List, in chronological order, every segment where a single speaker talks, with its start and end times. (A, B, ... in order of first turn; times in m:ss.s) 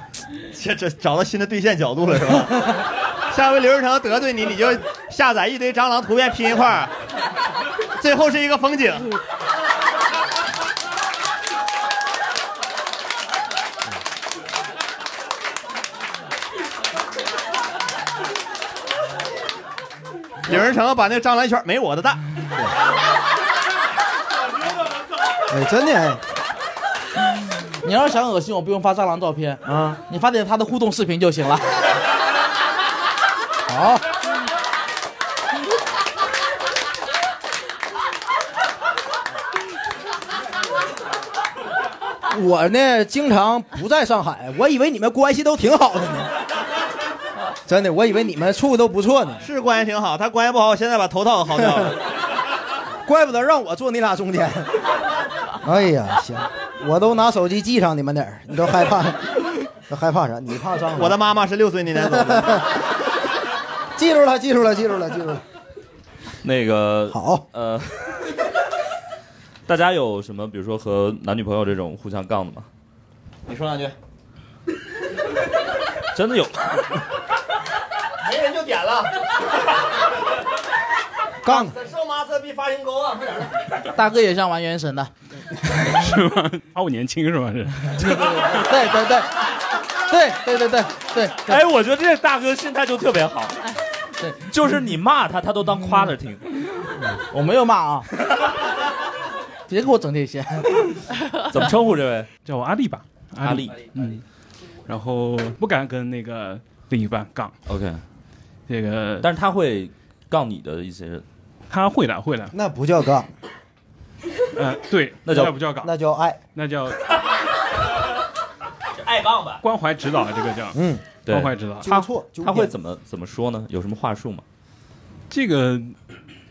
0:00.5-0:06.9 A
0:08.0-0:09.1 A
0:20.5-0:22.2 A
0:25.5-0:26.2 B
0:27.8-0:31.9 C
0:29.7-0:30.0 B
0:33.7-0:34.0 C
0:42.3-0:46.3 B
0:47.7-0:49.4 B
0:49.4-0:52.0 A
0:53.1-0:54.8 B
0:55.6-1:01.2 B
1:01.0-1:02.6 A
1:02.0-1:02.7 B
1:04.0-1:05.4 B
1:06.4-1:08.2 D
1:07.1-1:07.4 B
1:09.7-1:12.7 D
1:13.5-1:14.0 A
1:16.1-1:16.8 D
1:18.2-1:19.1 A
1:21.4-1:21.7 B
1:21.5-1:23.5 A
1:23.9-1:25.1 C
1:25.8-1:28.1 E
1:28.0-1:29.3 C
1:30.1-1:31.6 C
1:31.5-1:33.6 D
1:34.5-1:36.4 D
1:37.3-1:38.1 C
1:39.7-1:41.0 C
1:41.5-1:42.3 D
1:42.4-1:44.2 E
1:43.4-1:43.9 D
1:44.9-1:47.5 E
1:47.7-1:48.0 D
1:48.7-1:49.3 E
1:49.2-1:51.2 D
1:51.7-1:52.5 E
1:52.5-1:53.3 B
1:54.6-1:55.9 E
1:55.2-1:55.5 D
1:55.3-1:56.4 B
1:56.6-1:57.0 E
1:59.0-1:59.6 A
1:59.6-2:01.9 E
2:00.7-2:01.0 B
2:01.3-2:04.4 D
2:01.8-2:02.7 B
2:05.3-2:06.0 E